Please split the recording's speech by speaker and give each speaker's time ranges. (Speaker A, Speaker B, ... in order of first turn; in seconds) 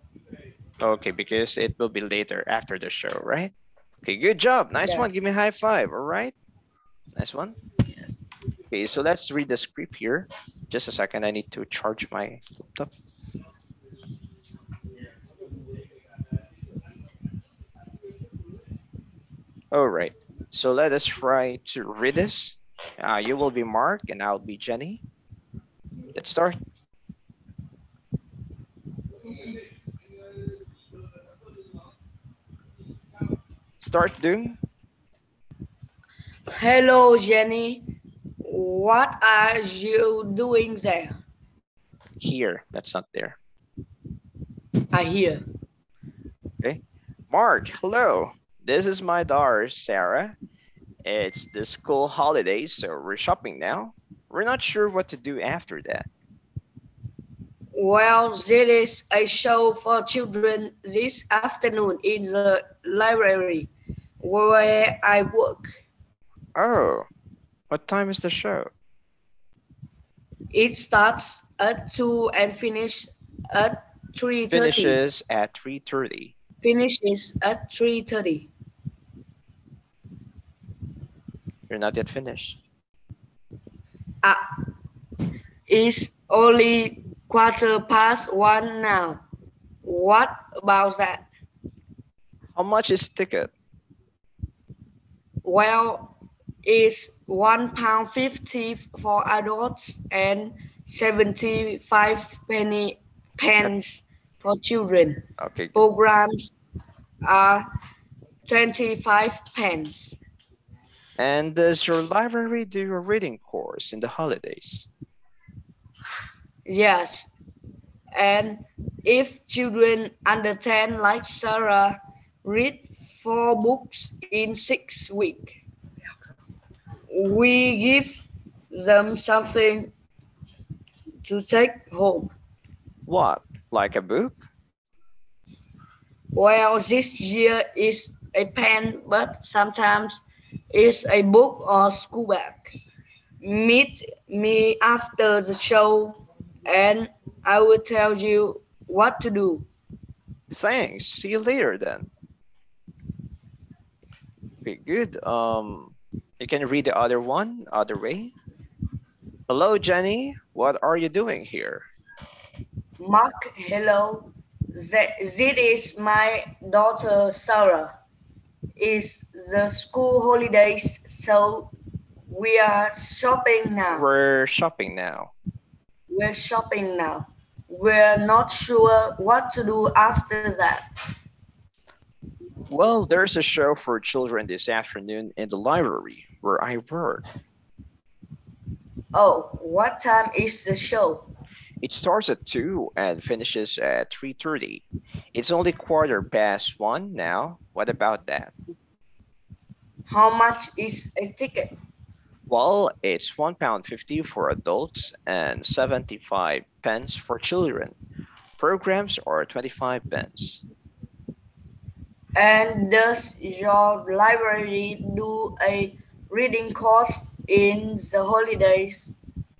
Speaker A: 0.8-6.3, 7.1-7.6, 8.7-12.9, 19.7-25.0, 26.1-26.6, 33.8-34.6, 42.2-43.4, 46.6-50.4, 51.0-56.1, 66.5-67.1, 67.7-68.7, 74.5-76.3, 81.7-82.6, 92.5-93.5, 105.4-105.8, 111.2-114.9, 133.1-134.4, 150.5-152.1, 154.6-158.3, 159.5-161.8, 173.9-175.3, 182.7-187.2, 191.8-198.5, 202.5-207.9, 208.6-210.6
Speaker B: 4.8-5.2, 36.5-37.9, 38.4-41.2, 44.9-45.4, 57.7-63.7, 64.2-65.7, 70.5-75.0, 76.6-78.5, 84.2-84.5, 85.7-89.2, 89.8-91.3, 95.4-96.1, 96.6-106.5, 107.2-107.6, 108.5-110.2, 116.7-117.3, 118.1-125.6, 127.1-129.9, 131.2-132.3, 136.3-140.2, 140.7-142.7, 143.4-149.7, 163.0-167.9, 168.8-171.7, 172.3-174.1, 176.1-180.8, 189.1-191.3, 200.1-201.7, 212.3-219.1